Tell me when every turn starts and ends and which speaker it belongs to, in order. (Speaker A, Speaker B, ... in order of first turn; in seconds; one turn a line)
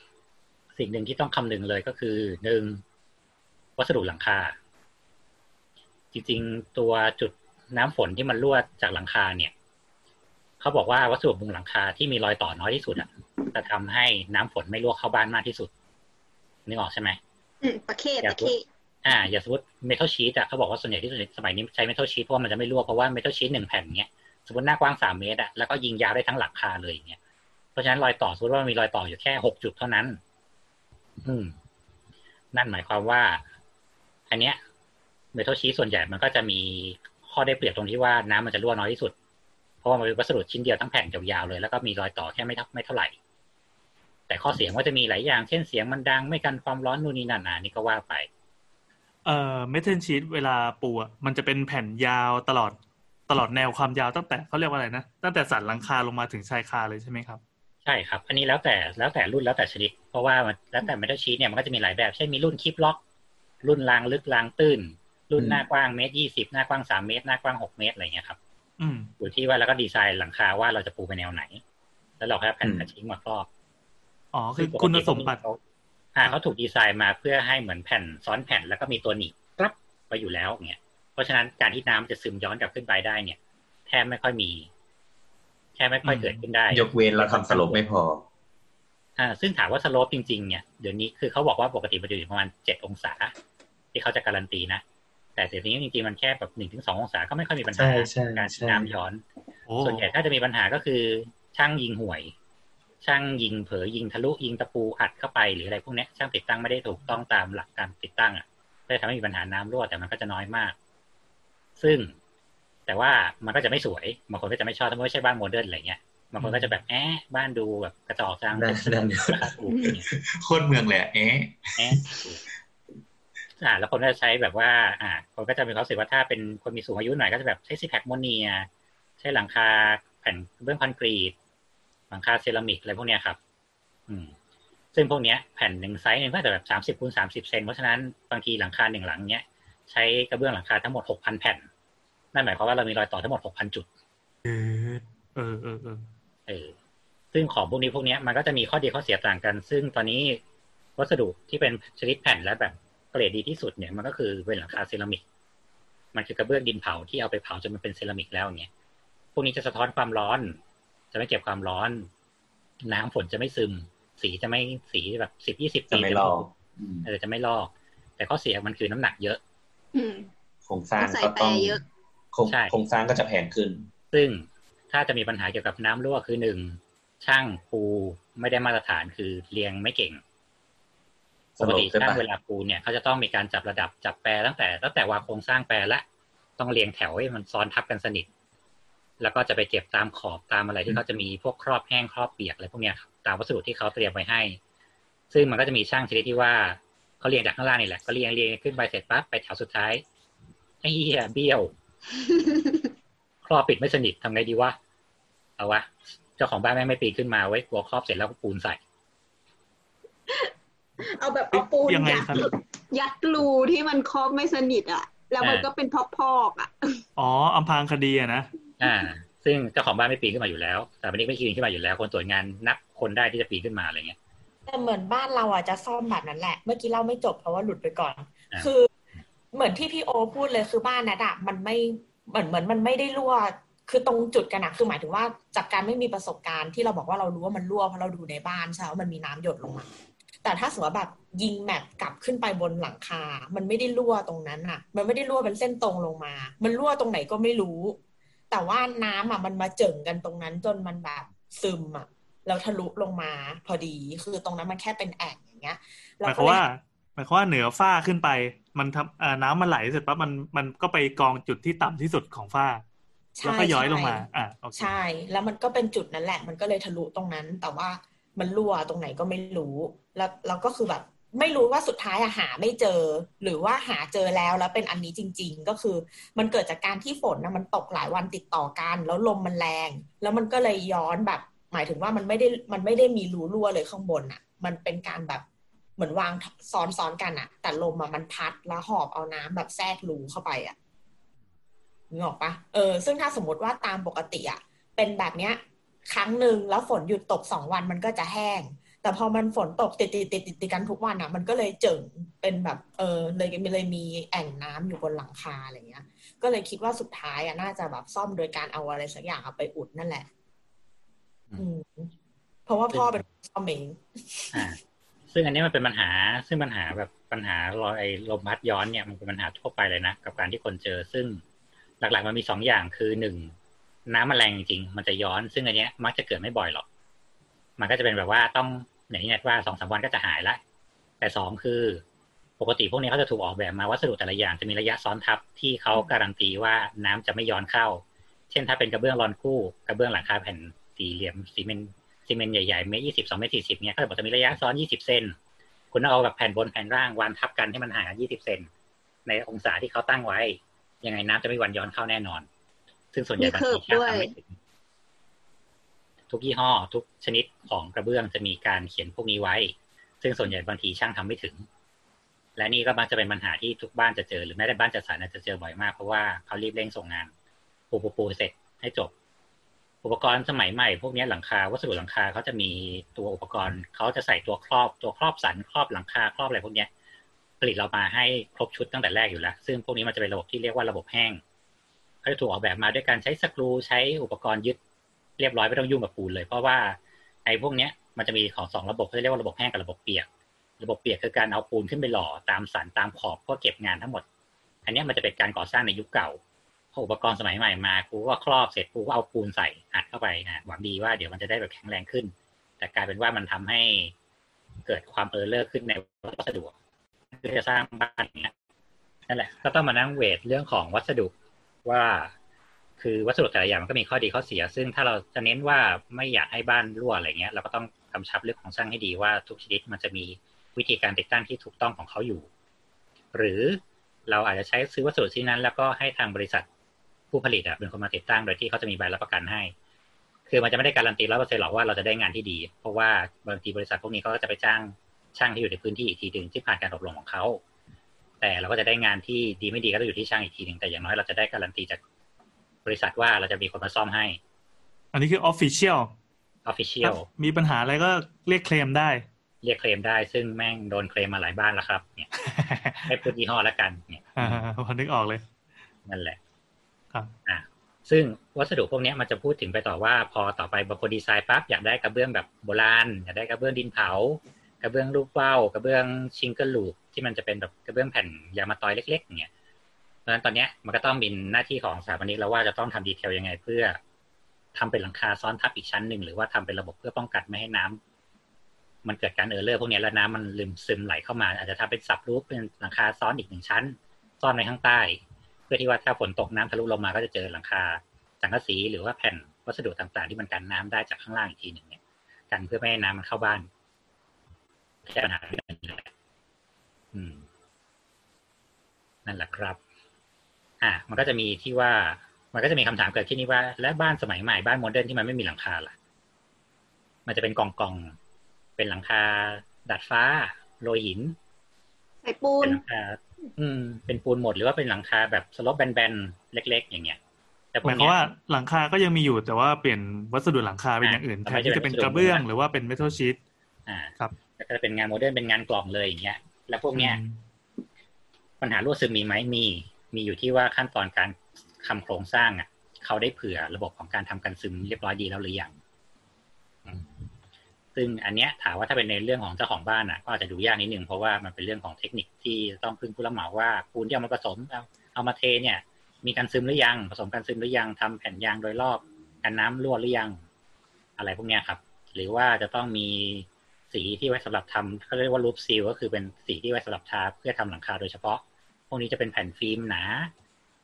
Speaker A: 0.8-2.8
Speaker A: 3.8-4.5
Speaker A: 6.1-9.5
Speaker A: 10.6-15.7
Speaker A: 16.7-17.2
Speaker B: 17.6-18.6
Speaker A: 18.2-18.5
Speaker A: 19.0-27.2
Speaker A: 27.8-30.2
Speaker A: 31.2-31.5
Speaker A: 32.5-33.4
Speaker A: 34.3-34.6
Speaker A: 35.3-39.1
Speaker A: 39.8-43.1
Speaker A: 44.3-48.3
Speaker C: 49.2-52.8
Speaker C: 53.3-57.4
Speaker A: 57.8-63.0
Speaker A: 63.6-68.4
Speaker D: 65.4-65.6
Speaker C: 68.8-69.1
Speaker A: 69.2-71.6
Speaker A: 72.2-73.5
Speaker D: 72.6-72.9
Speaker C: 74.3-75.4
Speaker A: 74.5-75.6
Speaker A: 76.1-84.7
Speaker A: 85.8-87.8
Speaker C: 86.0-86.4
Speaker D: 86.7-88.2
Speaker A: 89.2-93.3
Speaker A: 93.9-94.8
Speaker A: 95.3-99.2
Speaker D: 97.7-98.9
Speaker C: 99.7-100.0
Speaker A: 99.8-102.3
Speaker A: 103.0-110.8
Speaker A: 111.8-112.1
Speaker A: 112.9-120.0
Speaker D: 118.5-119.5
Speaker D: 120.0-122.2
Speaker A: 121.8-122.4
Speaker A: 123.6-128.7
Speaker A: 129.2-131.3
Speaker A: 132.1-133.4
Speaker A: 134.1-134.3
Speaker A: 134.9-141.7
Speaker A: 142.3-143.9
Speaker C: 144.4-146.0
Speaker A: 146.5-146.7
Speaker A: 147.3-150.4
Speaker A: 151.0-155.2
Speaker A: 156.1-158.7
Speaker A: 159.3-160.6
Speaker A: 161.1-162.1
Speaker A: 162.8-166.5
Speaker D: 165.9-167.1
Speaker A: 167.0-169.4
Speaker B: 169.9-170.3
Speaker D: 170.7-171.8
Speaker B: 171.0-171.8
Speaker D: 172.3-173.8
Speaker A: 172.5-172.7
Speaker A: 174.1-180.2
Speaker A: 181.6-186.0
Speaker D: 181.6-182.2
Speaker A: 186.6-188.3
Speaker A: 189.2-194.6
Speaker A: 195.3-200.0
Speaker A: 200.8-201.7
Speaker B: 202.1-202.9
Speaker A: 203.4-204.8
Speaker A: 205.6-208.8
Speaker B: 210.3-217.0
Speaker C: 211.5-212.4
Speaker A: 215.4-215.7
Speaker C: 217.2-218.5
Speaker A: 218.8-224.2
Speaker E: 224.7-228.9
Speaker E: 229.5-239.9
Speaker E: 240.4-248.0
Speaker E: 248.5-256.6
Speaker C: 256.2-262.8
Speaker E: 263.4-264.2
Speaker C: 263.4-265.0
Speaker E: 264.8-285.4
Speaker E: 286.0-290.8
Speaker E: 292.1-310.3
Speaker E: 311.6-312.1
Speaker E: 312.6-314.7
Speaker A: 312.9-313.2
Speaker A: 314.5-314.8
Speaker A: 315.3-321.4
Speaker A: 322.0-323.5
Speaker A: 324.1-326.8
Speaker A: 327.8-330.6
Speaker A: 331.2-332.0
Speaker A: 332.6-345.4
Speaker A: 345.9-348.7
Speaker A: 349.2-352.5
Speaker A: 353.1-354.6
Speaker B: 353.4-354.3
Speaker A: 356.3-361.6
Speaker A: 362.6-367.3
Speaker A: 367.9-369.1
Speaker A: 370.0-376.9
Speaker A: 377.6-381.4
Speaker A: 382.2-384.8
Speaker A: 385.4-390.3
Speaker A: 390.8-394.2
Speaker A: 394.9-396.4
Speaker A: 396.9-404.1
Speaker A: 404.9-406.7
Speaker A: 407.4-408.5
Speaker A: 409.3-411.3
Speaker A: 411.8-412.3
Speaker A: 413.0-422.5
Speaker A: 423.3-426.6
Speaker A: 427.3-429.7
Speaker A: 430.5-437.6
Speaker A: 438.4-442.0
Speaker A: 442.8-444.4
Speaker C: 445.1-446.1
Speaker A: 446.6-447.2
Speaker C: 447.0-449.2
Speaker A: 449.6-452.3
Speaker C: 452.4-453.1
Speaker A: 453.1-454.6
Speaker C: 454.4-455.4
Speaker A: 456.1-456.4
Speaker A: 457.4-469.5
Speaker A: 470.2-474.0
Speaker A: 474.7-478.0
Speaker A: 479.0-492.0
Speaker A: 492.5-493.7
Speaker A: 495.1-496.1
Speaker A: 497.1-497.4
Speaker A: 499.2-499.8
Speaker A: 500.8-505.9
Speaker A: 507.2-508.1
Speaker A: 508.8-511.4
Speaker B: 512.2-512.8
Speaker A: 512.6-517.2
Speaker A: 517.7-518.3
Speaker C: 517.8-523.4
Speaker A: 521.0-522.4
Speaker A: 523.9-527.2
Speaker C: 527.0-527.4
Speaker A: 528.6-535.7
Speaker A: 537.9-550.4
Speaker A: 551.2-560.3